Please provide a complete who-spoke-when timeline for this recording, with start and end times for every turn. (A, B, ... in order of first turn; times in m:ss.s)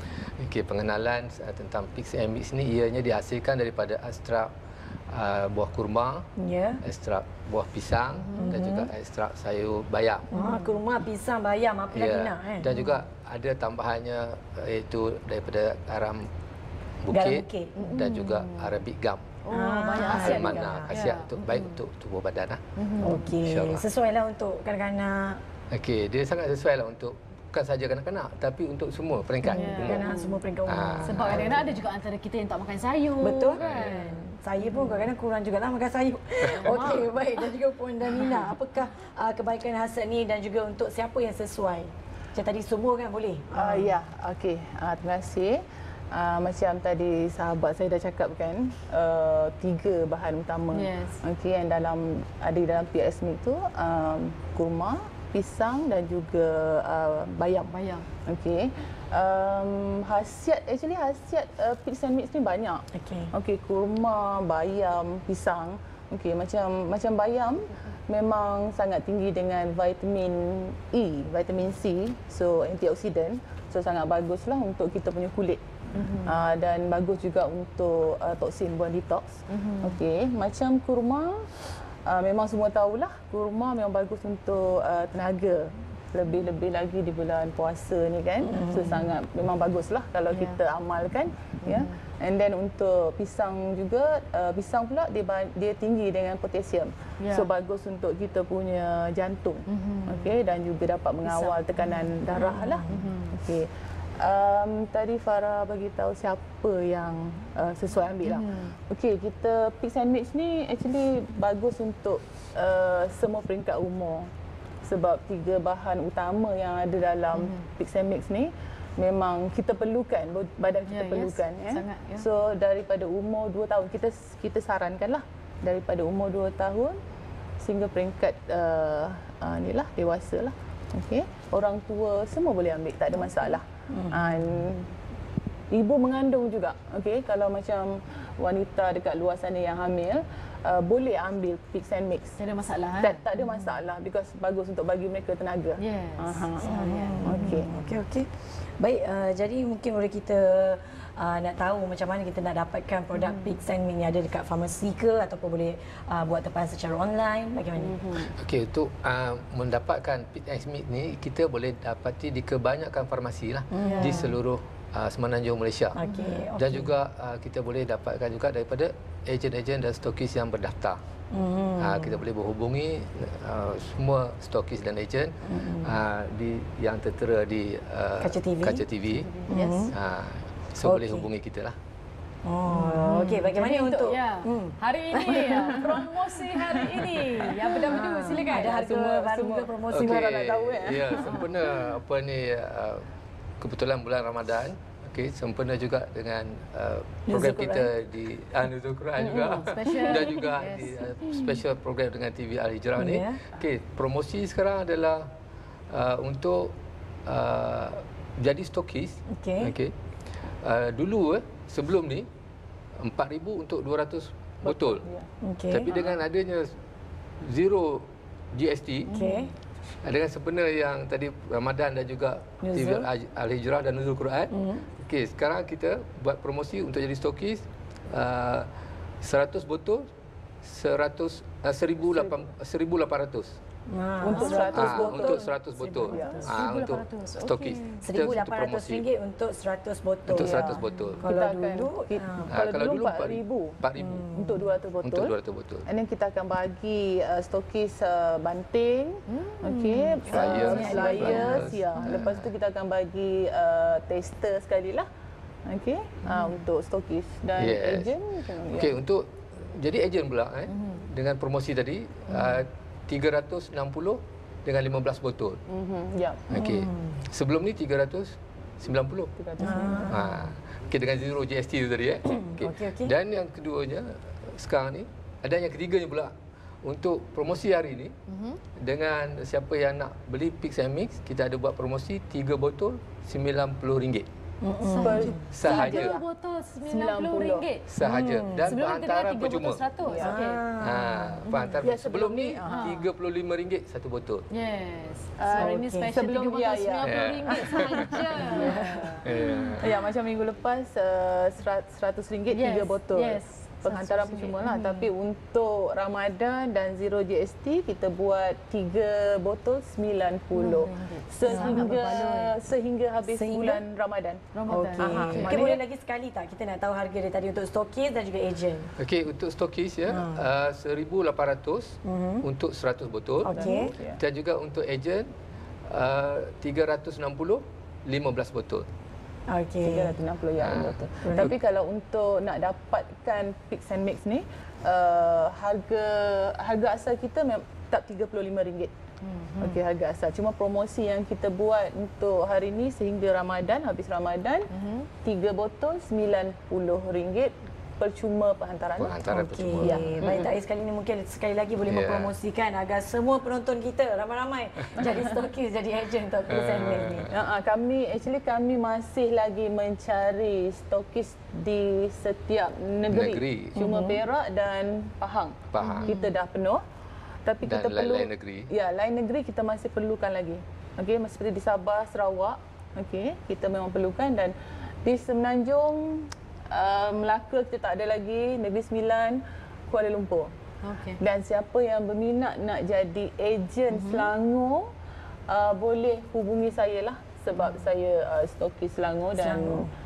0:00.4-0:04.5 A
0:05.1-0:06.2 A
0:06.4-0:06.8 B
0:06.8-0:10.3 A
0:08.2-0:08.5 C
0:08.4-0:08.9 B
0:10.3-0:12.7 B
0:10.3-0:10.8 C
0:11.9-0:16.2 A
0:12.7-0:13.0 C
0:17.0-0:19.3 A
0:17.1-0:17.7 B
0:17.7-0:18.7 C
0:19.4-0:21.7 C
0:19.5-0:21.0 B
0:20.0-0:22.6 A
0:22.8-0:23.3 C
0:23.0-0:25.4 B
0:23.4-0:23.8 A
0:25.7-0:30.1 A
0:29.4-0:31.8 B
0:29.5-0:30.4 C
0:30.6-0:31.5 A
0:31.0-0:35.0 C
0:33.2-0:44.0 B
0:33.6-0:33.9 A
0:36.5-0:37.0 A
0:36.5-0:37.5 C
0:38.1-0:38.5 C
0:43.5-0:45.6 D
0:46.1-0:57.7 D
0:50.7-0:51.2 C
0:57.7-0:58.0 C
0:58.2-1:15.6 D
1:02.9-1:03.3 B
1:16.0-1:16.4 C
1:16.2-1:21.4 D
1:19.5-1:20.0 C
1:22.0-1:43.7 D
1:30.3-1:30.6 C
1:31.6-1:32.0 C
1:37.2-1:37.5 C
1:39.7-1:40.3 C
1:41.2-1:41.6 C
1:42.3-1:43.4 C
1:44.2-1:54.3 D
1:48.2-1:48.7 C
1:54.8-2:07.0 D
1:57.3-1:57.6 C
2:00.8-2:02.2 C
2:07.6-2:14.9 D
2:15.7-2:22.4 D
2:22.4-2:23.2 C
2:23.0-2:27.7 D
2:25.8-2:27.5 C
2:26.8-2:28.3 B
2:28.8-2:38.2 B
2:33.2-2:33.5 C
2:37.8-2:38.3 D
2:38.4-2:46.0 A
2:43.7-2:44.3 B
2:43.8-2:44.2 C
2:45.9-2:46.9 B
2:46.1-2:46.4 C
2:46.5-2:51.0 A
2:51.3-2:52.2 B
2:51.8-2:59.4 A
2:55.5-2:56.0 B
2:58.2-2:58.8 B
2:59.2-2:59.9 C
2:59.5-2:59.9 B
2:59.9-3:01.8 A
3:00.8-3:01.3 B
3:02.4-3:05.8 B
3:02.7-3:09.1 C
3:07.8-3:10.3 B
3:08.9-3:11.6 D
3:09.9-3:13.0 A
3:13.6-3:25.3 A
3:17.3-3:17.9 B
3:19.2-3:20.0 D
3:19.7-3:21.1 C
3:23.0-3:23.4 B
3:25.9-3:26.7 A
3:27.3-3:29.9 A
3:29.3-3:29.7 B
3:30.6-3:32.3 A
3:33.0-3:35.0 A
3:34.6-3:35.2 D
3:35.4-3:36.0 B
3:35.7-3:36.7 A
3:37.4-3:39.1 A
3:39.1-3:39.5 C
3:39.1-3:39.5 B
3:40.0-3:44.5 A
3:42.6-3:43.1 B
3:44.5-3:44.8 B
3:45.0-3:48.7 A
3:49.2-3:50.1 A
3:50.6-3:53.6 A
3:52.0-3:52.4 D
3:53.9-3:55.5 B
3:54.2-3:56.5 D
3:54.3-3:54.8 C
3:54.6-3:59.1 A
3:56.0-3:57.8 C
3:56.1-3:56.4 B
3:58.0-4:02.5 B
4:00.3-4:01.2 A
4:00.3-4:03.8 D
4:02.5-4:04.2 A
4:04.0-4:04.6 B
4:04.3-4:05.3 D
4:05.0-4:05.8 A
4:05.9-4:15.0 D
4:09.3-4:12.0 C
4:10.3-4:12.5 A
4:10.4-4:11.6 B
4:15.7-4:19.0 D
4:16.2-4:16.6 C
4:17.6-4:18.1 A
4:18.7-4:25.6 A
4:20.7-4:21.0 C
4:25.7-4:26.4 D
4:26.5-4:29.3 A
4:26.5-4:27.2 B
4:29.4-4:30.1 D
4:29.6-4:30.2 B
4:30.1-4:36.3 A
4:32.3-4:33.1 B
4:36.8-4:38.1 A
4:38.3-4:38.6 C
4:38.8-4:44.3 A
4:44.6-4:45.4 B
4:44.9-4:46.2 D
4:45.0-4:47.8 C
4:45.5-4:46.2 A
4:46.8-4:47.6 D
4:47.9-4:49.8 A
4:48.0-4:48.7 B
4:48.6-4:50.6 C
4:50.0-4:50.4 D
4:50.2-4:51.3 B
4:50.8-4:54.4 A
4:51.5-4:51.7 C
4:51.8-4:53.0 D
4:52.6-4:53.0 C
4:54.5-4:59.4 C
4:55.4-4:59.0 D
4:55.5-4:56.1 B
4:57.0-4:58.3 A
4:58.4-4:59.2 B
4:59.2-4:59.9 A
4:59.8-5:14.4 D
5:02.5-5:05.0 C
5:10.5-5:12.6 C
5:11.5-5:12.2 B
5:13.2-5:13.8 B
5:14.5-5:15.8 C
5:14.7-5:18.9 B
5:15.0-5:15.8 D
5:19.0-5:23.6 A
5:20.1-5:20.4 B
5:22.0-5:22.4 B
5:23.4-5:23.9 B
5:23.5-5:24.2 D
5:24.2-5:25.3 A
5:25.9-5:28.9 A
5:29.5-5:30.2 B
5:29.8-5:38.9 D
5:30.6-5:31.6 A
5:31.2-5:31.5 B
5:39.2-5:39.8 C
5:39.6-5:44.7 D
5:44.7-5:45.1 C
5:45.2-5:49.2 D
5:49.0-5:50.4 A
5:49.2-5:57.3 B
5:49.8-5:50.5 D
5:51.9-5:52.3 A
5:55.0-5:55.3 D
5:56.5-5:57.3 A
5:57.3-6:06.8 D
6:03.1-6:03.8 A
6:03.8-6:04.2 B
6:05.7-6:06.1 A
6:05.8-6:06.3 C
6:07.4-6:20.5 D
6:07.6-6:08.7 A
6:20.8-6:21.2 C
6:21.2-6:24.9 D
6:23.9-6:24.3 C
6:25.5-6:29.9 D
6:29.3-6:29.9 B